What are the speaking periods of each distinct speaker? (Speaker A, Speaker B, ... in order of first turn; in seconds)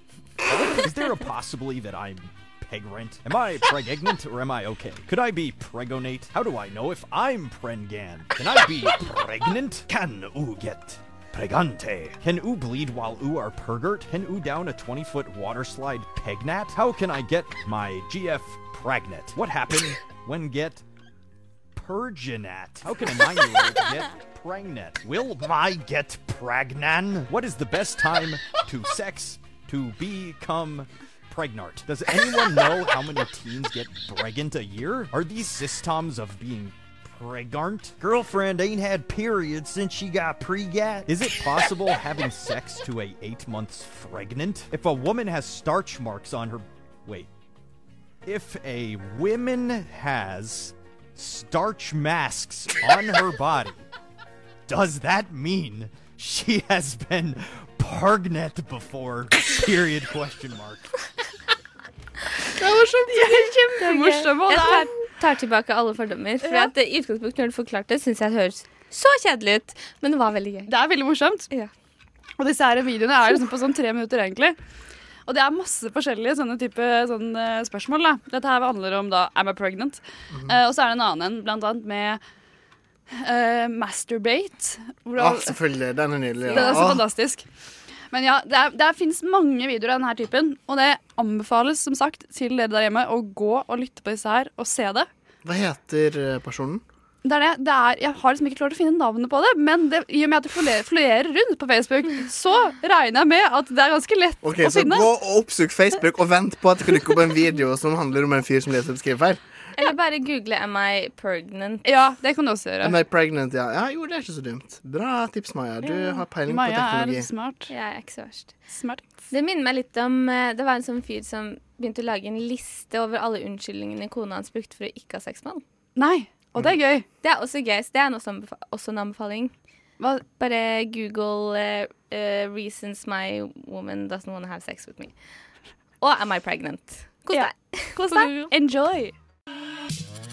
Speaker A: 0.4-20.8, 21.7-47.3, 48.2-53.8, 54.7-60.9
Speaker B: 62.6-64.9, 66.4-66.7, 70.7-71.5, 72.4-74.6, 75.2-82.2, 83.1-85.6, 86.4-87.4, 88.1-95.1, 97.2-105.1, 111.8-113.0, 115.8-117.7, 118.7-119.1, 126.0-127.0, 130.0-130.2, 137.3-139.1
Speaker C: 63.2-70.7, 109.8-111.9, 117.7-118.6, 119.3-125.6, 127.2-129.5, 130.3-135.1, 136.0-138.5
Speaker D: 80.3-80.6, 85.1-87.1, 95.4-96.8, 104.4-109.4, 112.8-117.3